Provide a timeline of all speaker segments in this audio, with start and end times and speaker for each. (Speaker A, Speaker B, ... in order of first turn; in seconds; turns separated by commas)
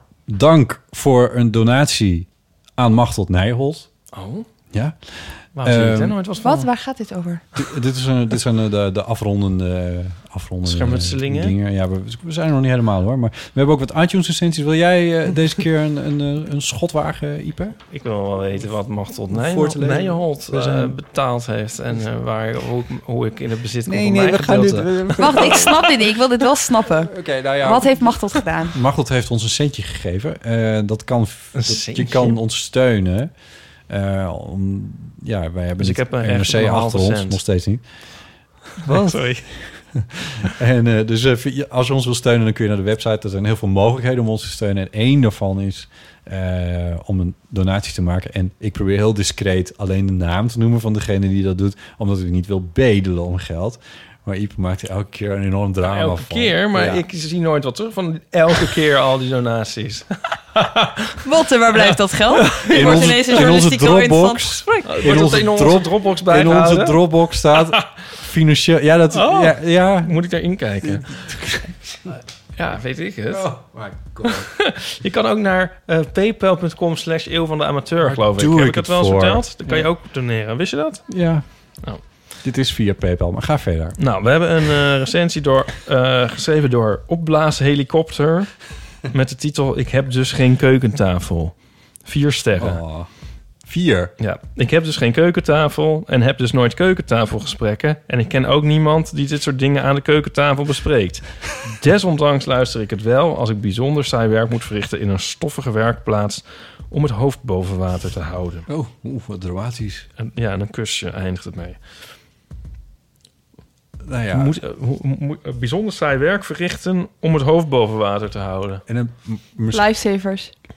Speaker A: 0.3-3.9, Speaker B: 4.1-4.5, Speaker A: 4.7-6.2, Speaker B: 5.6-6.7, Speaker C: 6.4-7.4, Speaker A: 7.6-17.8, Speaker B: 10.7-11.6, Speaker B: 17.9-25.7, Speaker A: 19.3-21.0, Speaker A: 23.9-25.8, Speaker C: 25.2-28.8, Speaker A: 27.1-33.3, Speaker B: 31.5-32.4, Speaker A: 33.9-38.1, Speaker B: 35.8-37.4, Speaker A: 38.8-57.0, Speaker B: 38.8-39.5, Speaker B: 55.8-61.1, Speaker C: 61.2-65.1, Speaker B: 62.3-63.5, Speaker A: 62.7-70.2, Speaker B: 64.9-67.8, Speaker B: 69.1-71.3, Speaker A: 70.8-72.1, Speaker B: 72.1-73.5, Speaker A: 73.3-74.5, Speaker B: 74.2-82.0, Speaker A: 78.0-79.9, Speaker A: 81.1-84.0, Speaker B: 84.0-92.8, Speaker A: 92.6-93.1, Speaker A: 93.6-94.1, Speaker B: 94.2-108.7, Speaker A: 108.7-110.1, Speaker B: 110.2-112.0, Speaker A: 114.0-114.6, Speaker B: 114.3-118.8, Speaker A: 118.9-119.8, Speaker C: 119.7-120.5